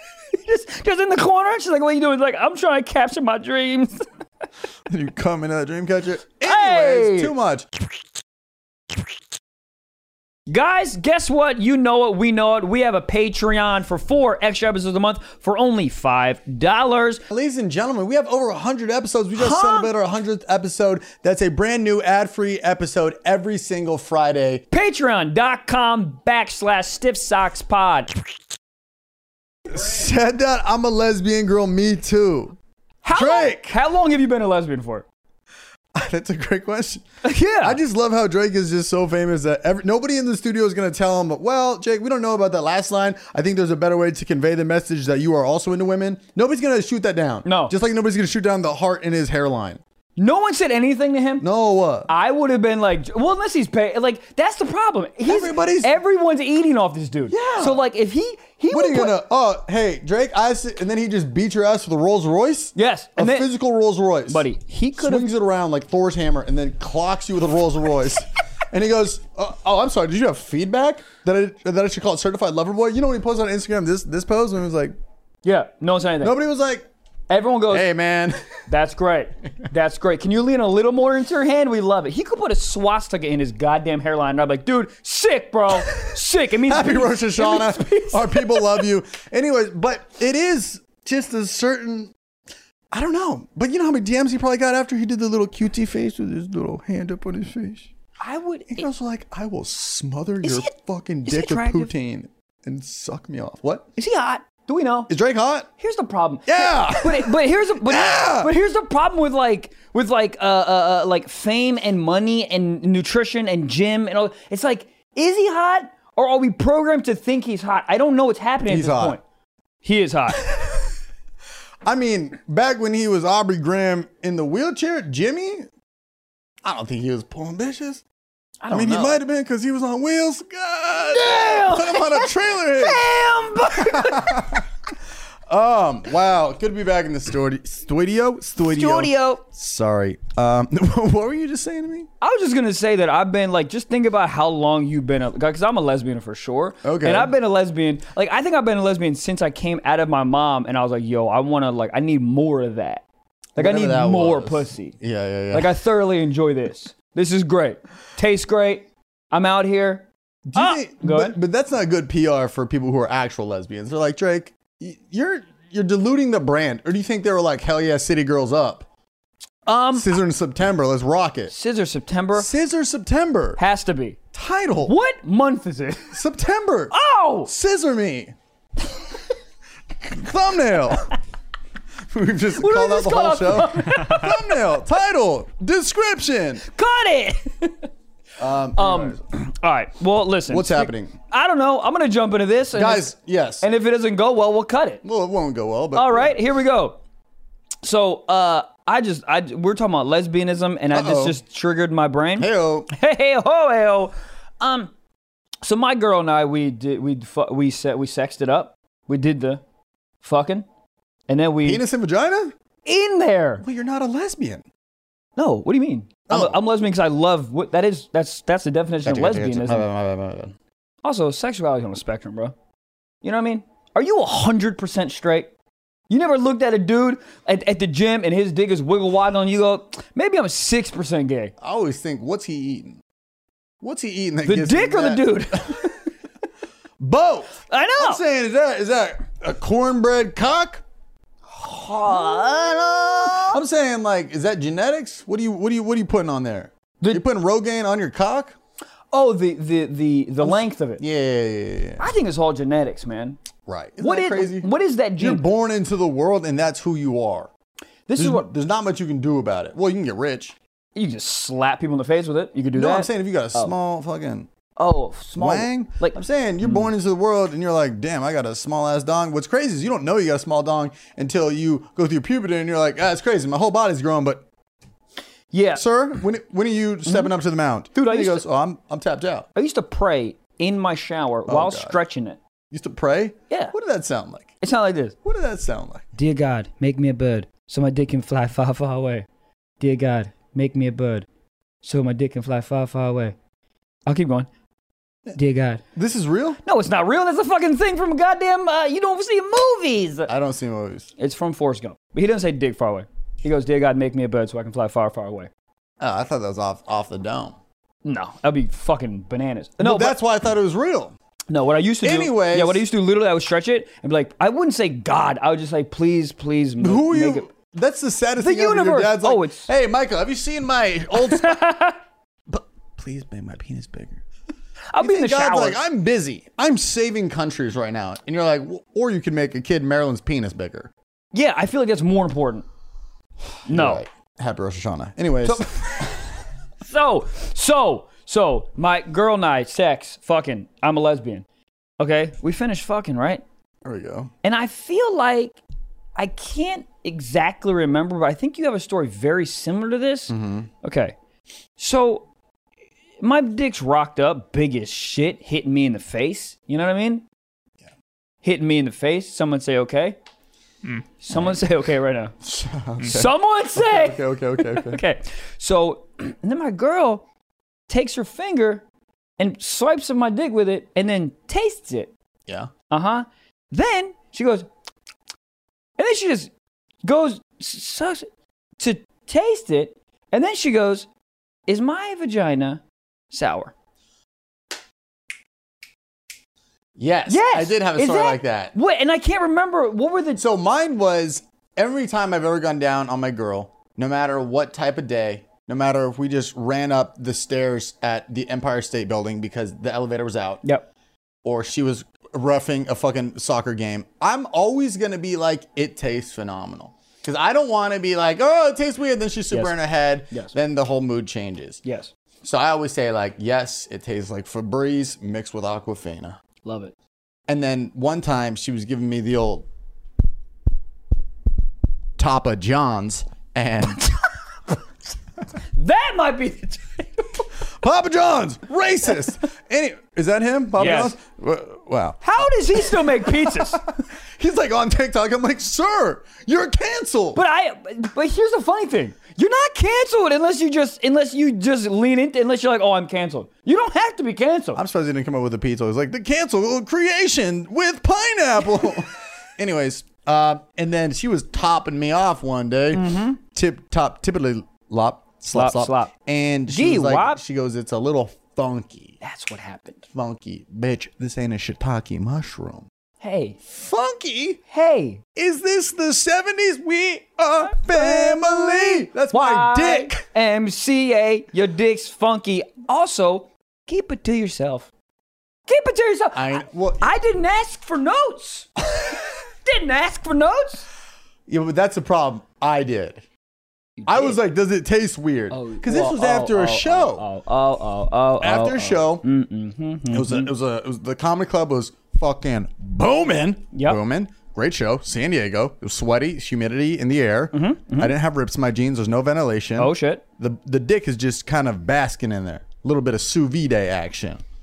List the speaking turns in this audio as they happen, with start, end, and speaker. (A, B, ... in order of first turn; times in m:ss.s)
0:00.3-0:04.0 A
0:04.9-0:07.7 B
0:06.4-0:07.3 A
0:10.5-0:17.2 A
0:17.3-0:24.6 B
0:19.4-0:19.9 A
0:24.7-0:28.1 A
0:29.7-0:32.6 B
0:33.0-0:35.0 A
0:33.1-0:33.8 B
0:35.9-0:37.0 B
0:37.2-0:37.8 A
0:37.6-0:49.8 B
0:47.4-0:47.7 A
0:50.2-0:51.4 A
0:51.4-0:52.1 B
0:52.1-0:59.1 A
0:55.2-0:55.9 B
0:57.3-0:57.8 B
0:58.7-1:14.9 B
1:02.7-1:03.5 A
1:04.3-1:05.3 A
1:15.4-1:16.4 A
1:16.2-1:16.9 B
1:17.3-1:17.9 A
1:17.7-1:18.5 B
1:18.7-1:28.8 A
1:25.7-1:32.1 B
1:32.9-1:37.9 B
1:38.2-1:38.9 A
1:38.7-1:43.9 B
1:40.4-1:40.7 A
1:41.2-1:41.9 A
1:44.0-1:45.1 A
1:45.1-1:45.7 B
1:45.8-1:59.2 A
1:46.5-1:48.5 B
1:58.6-1:59.2 B
1:59.8-2:00.5 A
2:01.8-2:05.7 B
2:06.6-2:08.0 B
2:08.6-2:09.2 A
2:08.7-2:13.0 B
2:11.1-2:14.6 A
2:13.7-2:14.7 B
2:15.5-2:22.1 B
2:18.7-2:19.4 A
2:22.2-2:33.0 A
2:26.8-2:27.3 B
2:33.6-2:35.0 A
2:33.6-2:35.7 B
2:35.5-2:41.4 A
2:40.4-2:48.9 B
2:49.6-2:50.1 A
2:49.9-2:51.5 B
2:51.5-2:52.5 A
2:52.3-2:53.6 B
2:53.6-2:54.2 A
2:54.3-2:55.0 B
2:54.8-2:56.2 A
2:56.1-2:56.9 B
2:56.9-2:57.5 A
2:57.4-2:58.3 B
3:00.0-3:01.1 B
3:02.1-3:06.6 B
3:02.5-3:04.7 A
3:06.6-3:07.9 A
3:08.4-3:09.2 B
3:08.7-3:13.1 A
3:10.5-3:11.1 B
3:12.7-3:13.7 B
3:13.6-3:15.0 A
3:15.0-3:16.4 B
3:15.9-3:17.0 A
3:17.8-3:24.9 A
3:20.9-3:21.4 B
3:22.4-3:22.9 B
3:25.6-3:29.6 A
3:30.2-3:30.6 A
3:31.3-3:31.8 A
3:31.6-3:32.6 B
3:32.8-3:33.6 A
3:33.6-3:34.6 B
3:35.4-3:39.8 A
3:36.3-3:36.6 B
3:39.0-3:40.6 B
3:41.0-3:42.5 A
3:43.2-3:45.5 A
3:46.1-3:51.5 A
3:51.6-3:53.0 B
3:53.8-3:56.0 B
3:54.4-3:56.0 A
3:57.0-4:00.8 B
3:57.7-3:58.2 A
4:01.5-4:03.6 A
4:02.0-4:08.6 B
4:09.1-4:11.0 A
4:10.4-4:12.0 B
4:12.0-4:13.4 A
4:13.7-4:17.5 B
4:14.0-4:15.4 A
4:18.1-4:18.5 A
4:18.2-4:20.6 B
4:21.0-4:23.7 A
4:22.7-4:24.5 B
4:24.8-4:26.9 A
4:25.4-4:34.4 B
4:35.5-4:35.8 A
4:35.8-4:39.5 B
4:37.9-4:38.4 A
4:39.5-4:42.4 A
4:41.5-4:42.0 B
4:42.7-4:44.6 B
4:44.6-4:45.2 A
4:45.2-4:46.1 B
4:46.2-4:49.3 A
4:49.8-4:51.3 A
4:51.8-4:53.4 A
4:54.0-4:54.5 A
4:55.3-4:55.8 A
4:55.9-4:56.6 B
4:56.6-5:00.3 A
5:00.3-5:01.1 B
5:01.2-5:05.5 A
5:06.0-5:07.6 B
5:08.0-5:10.2 A
5:09.8-5:11.1 B
5:11.5-5:17.5 A
5:12.0-5:12.8 B
5:16.8-5:21.6 B
5:18.4-5:19.7 A
5:21.2-5:22.0 A
5:22.5-5:24.2 B
5:24.9-5:25.8 A
5:25.0-5:30.9 B
5:31.3-5:32.6 A
5:33.7-5:36.1 B
5:33.7-5:34.0 A
5:35.4-5:41.4 A
5:42.0-5:43.4 A
5:43.8-5:44.3 B
5:44.4-5:45.6 A
5:46.2-5:51.1 A
5:50.3-5:50.7 B
5:51.8-5:52.3 A
5:53.2-5:57.2 A
5:58.4-6:00.2 A
6:01.2-6:02.3 A
6:01.3-6:01.6 B
6:02.4-6:05.0 B
6:03.0-6:07.2 A
6:07.9-6:08.8 A
6:09.4-6:12.1 A
6:12.9-6:14.7 A
6:16.0-6:16.5 A
6:17.0-6:18.3 A
6:18.8-6:21.1 A
6:21.7-6:23.7 A
6:27.0-6:28.7 B
6:27.3-6:30.4 A
6:30.4-6:40.6 B
6:41.4-6:51.8 B
6:50.3-6:50.6 A
6:51.8-6:52.1 A
6:52.4-6:56.4 B
6:56.6-6:56.9 A
6:57.5-6:59.7 B
7:02.2-7:04.0 B
7:05.7-7:07.4 A
7:07.8-7:17.4 B
7:10.8-7:11.2 A
7:12.2-7:13.8 A
7:17.3-7:24.8 A
7:24.7-7:39.2 B
7:32.9-7:33.4 A
7:35.5-7:36.1 A
7:36.7-7:37.4 A
7:39.2-7:40.0 A
7:40.1-7:42.9 B
7:43.2-7:43.6 A
7:43.6-7:44.6 B
7:44.7-7:45.2 A
7:45.4-7:50.2 B
7:47.7-7:54.9 A
7:55.7-8:00.9 A
7:56.3-7:57.1 B
8:01.5-8:03.2 B
8:04.0-8:04.4 A
8:04.0-8:07.2 B
8:05.5-8:10.5 A
8:08.4-8:09.2 B
8:10.1-8:24.4 B
8:13.7-8:14.0 A
8:17.5-8:18.1 A
8:19.8-8:20.2 A